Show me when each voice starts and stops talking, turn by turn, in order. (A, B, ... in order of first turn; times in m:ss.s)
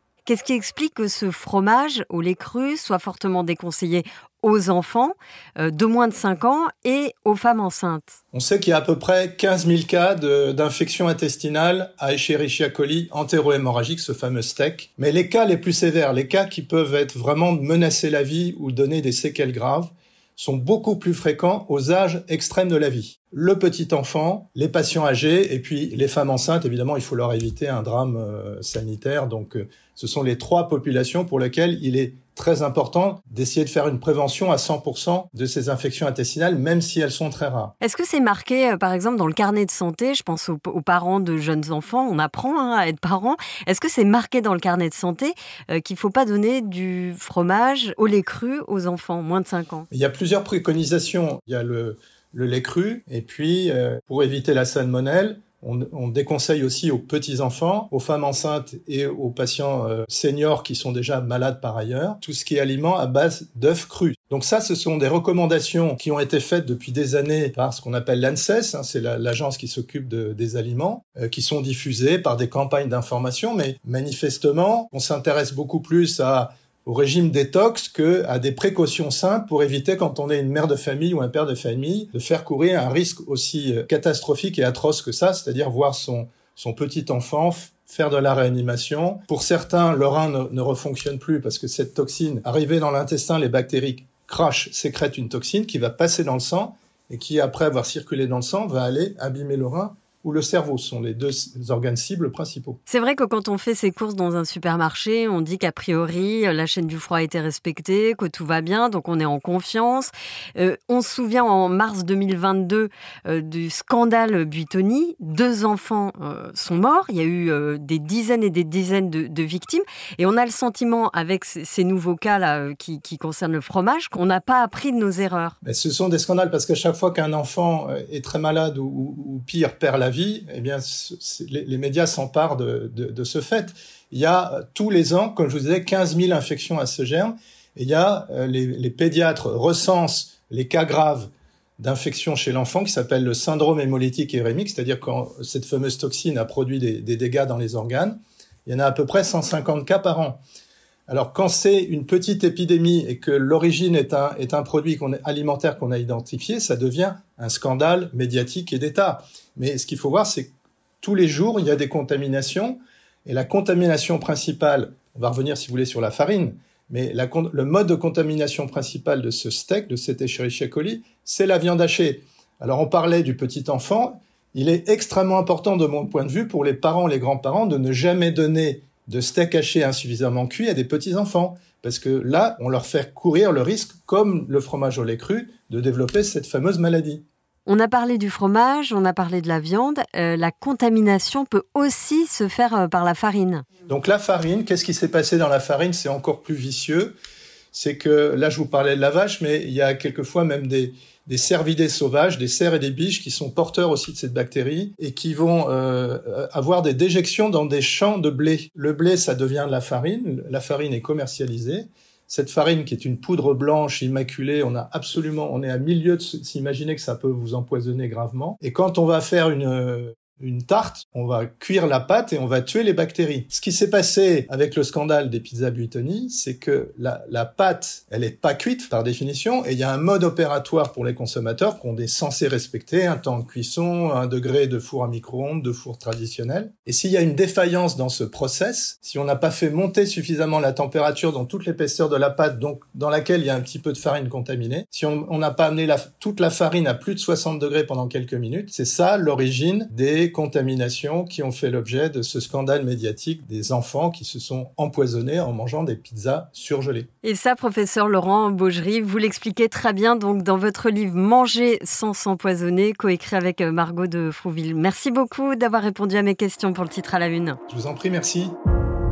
0:00.3-0:08.2 A
0:08.3-0:37.7 B
0:37.8-0:49.9 A
0:49.9-1:42.8 B
1:42.9-2:05.6 A
2:05.6-2:30.4 B
2:31.1-3:07.2 B
3:07.7-3:13.6 A
3:13.9-3:17.2 B
3:17.7-4:17.1 B
4:17.2-4:27.6 A
4:27.7-4:28.6 B